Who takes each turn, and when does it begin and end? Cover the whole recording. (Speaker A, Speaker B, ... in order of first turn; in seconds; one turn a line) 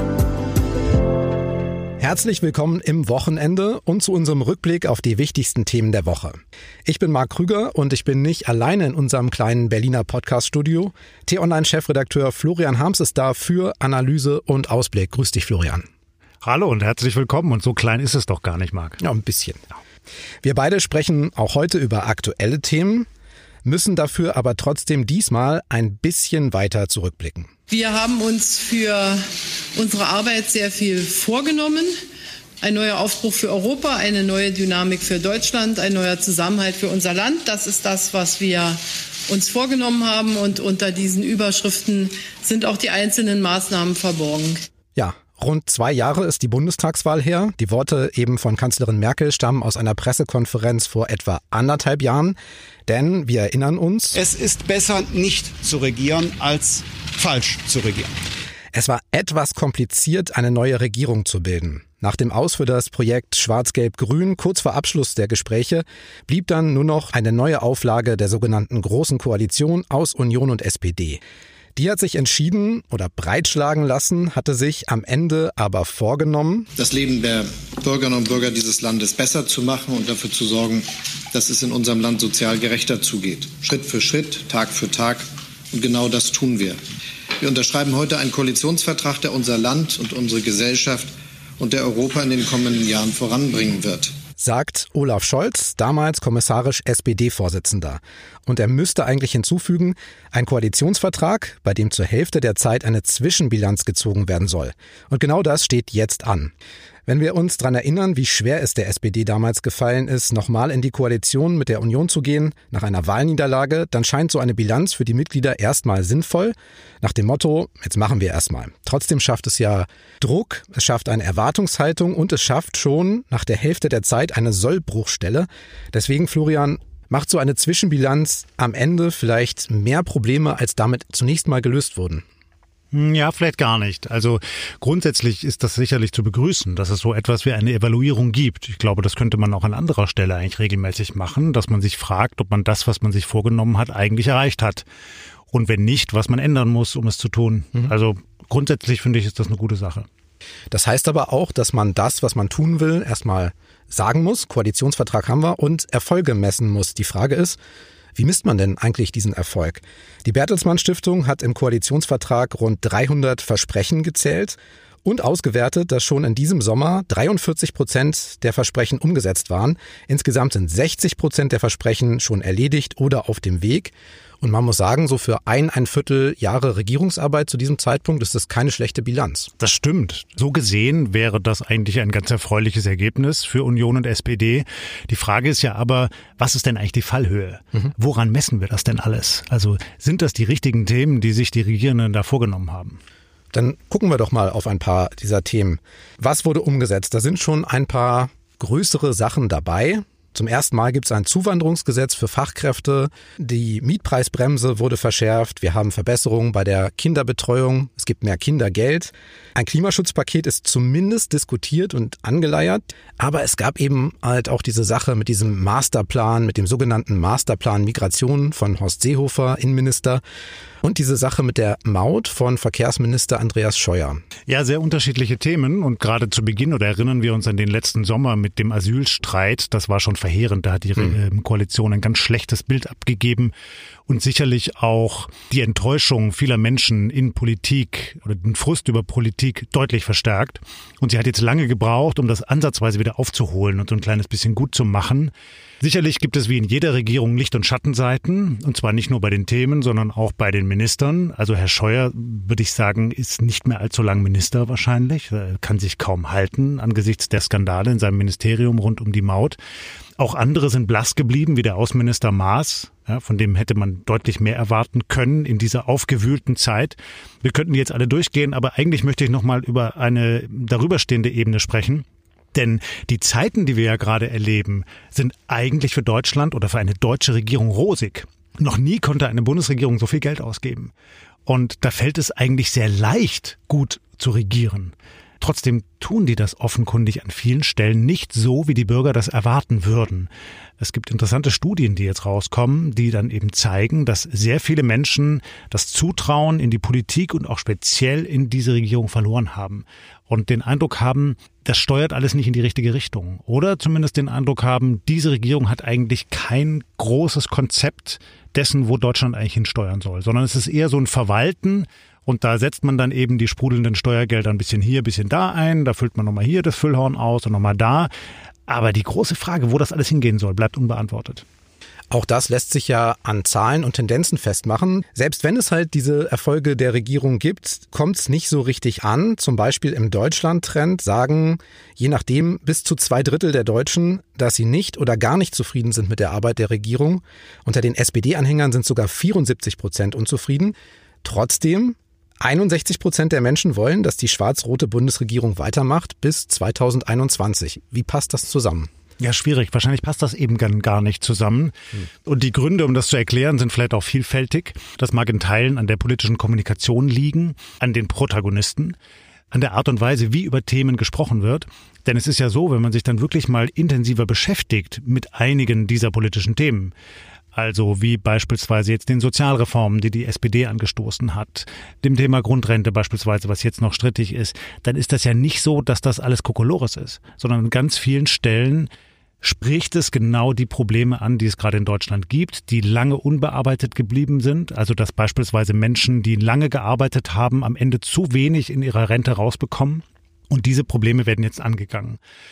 Speaker A: 2.0-15.8
Speaker B: 16.4-19.0
Speaker A: 19.0-19.6
Speaker A: 20.4-23.1
Speaker A: 23.6-27.5
Speaker C: 27.7-31.9
Speaker C: 32.6-44.6
Speaker A: 45.0-54.1
Speaker D: 54.1-58.1
Speaker A: 58.7-71.2
Speaker A: 71.8-76.7
Speaker E: 76.8-86.8
Speaker E: 87.4-94.1
Speaker A: 94.4-106.5
Speaker A: 107.0-132.2
Speaker B: 132.9-144.8
Speaker B: 145.5-150.1
Speaker A: 150.7-157.6
Speaker A: 158.2-179.5
Speaker B: 179.6-193.0
Speaker A: 193.5-220.2
Speaker A: 220.8-224.2
Speaker B: 224.5-233.5
Speaker B: 234.1-259.6
Speaker B: 260.2-280.9
Speaker B: 281.4-290.3
Speaker B: 290.8-318.1
Speaker B: 318.7-321.4
Speaker A: 322.1-348.9
Speaker B: 349.2-358.9
Speaker B: 359.5-366.9
Speaker B: 367.5-378.9
Speaker B: 379.4-392.2